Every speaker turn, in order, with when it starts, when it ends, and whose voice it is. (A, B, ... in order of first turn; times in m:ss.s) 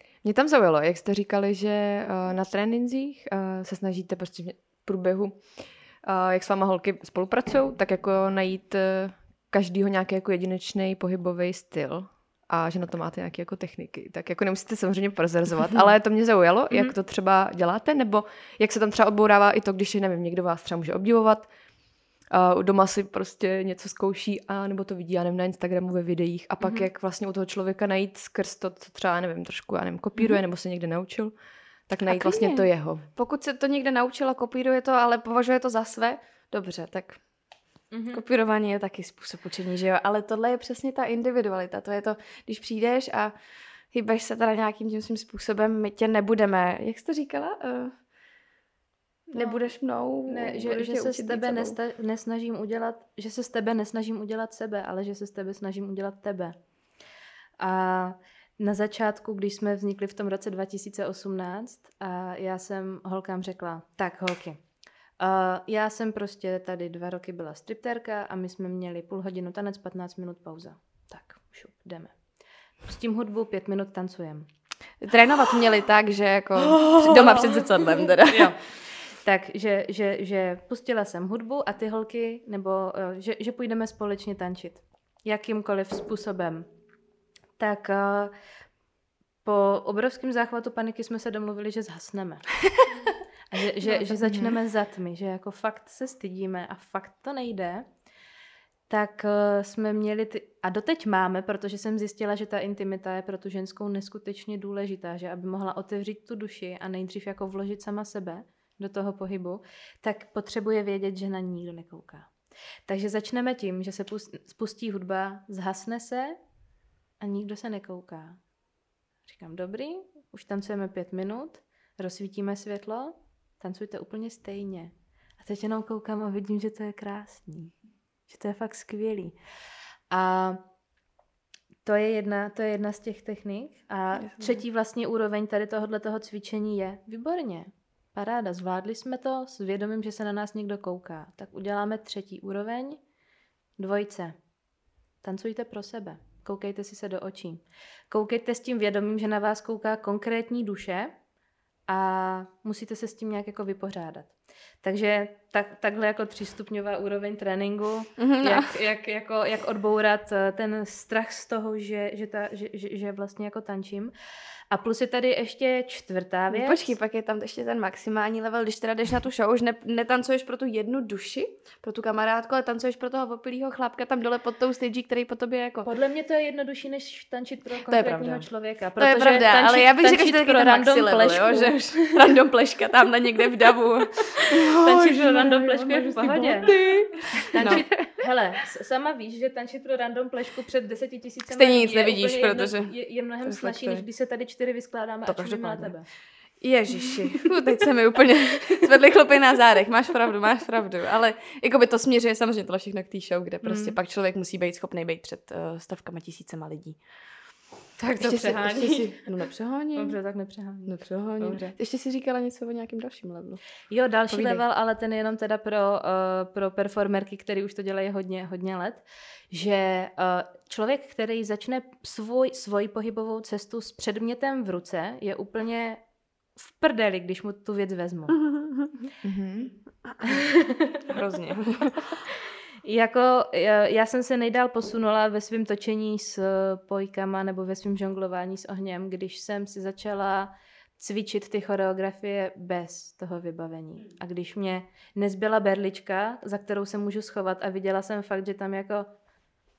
0:00.2-0:33.1 A
0:26.6-0:26.9 B
0:32.0-0:37.2 C
0:37.9-0:38.2 B
0:38.1-0:43.3 C
0:43.9-0:48.0 C
0:49.3-0:51.8 C
0:50.3-0:56.5 B
0:57.6-1:04.6 B
1:05.2-1:12.2 B
1:12.8-1:14.5 B
1:15.0-1:18.6 C
1:16.8-1:17.6 B
1:18.2-1:26.6 B
1:27.6-1:28.3 B
1:29.4-1:32.6 B
1:33.5-1:37.8 B
1:34.2-1:34.5 A
1:38.9-1:52.3 B
1:52.9-1:56.4 B
1:57.2-1:58.4 B
1:59.2-2:07.8 B
2:08.3-2:09.4 B
2:10.1-2:10.6 B
2:11.8-2:23.0 B
2:14.2-2:14.6 C
2:23.8-2:24.4 B
2:25.2-2:31.1 B
2:31.9-2:44.1 B
2:38.2-2:38.8 C
2:44.7-2:46.9 B
2:46.5-2:55.9 C
2:55.8-3:02.2 B
2:57.9-3:07.9 C
3:04.8-3:06.7 B
3:07.5-3:16.1 B
3:11.5-3:12.9 C
3:13.4-3:14.0 C
3:15.2-3:15.9 C
3:16.6-3:27.0 C
3:23.6-3:24.0 B
3:28.0-3:29.3 B
3:28.2-3:30.2 C
3:30.0-3:31.7 B
3:30.8-3:33.6 C
3:33.9-3:46.0 B
3:34.3-3:34.6 C
3:46.6-3:48.4 B
3:48.5-3:48.9 C
3:49.2-3:49.7 A
3:50.1-3:50.4 C
3:50.2-3:51.0 B
3:51.0-3:52.2 C
3:52.8-4:09.1 B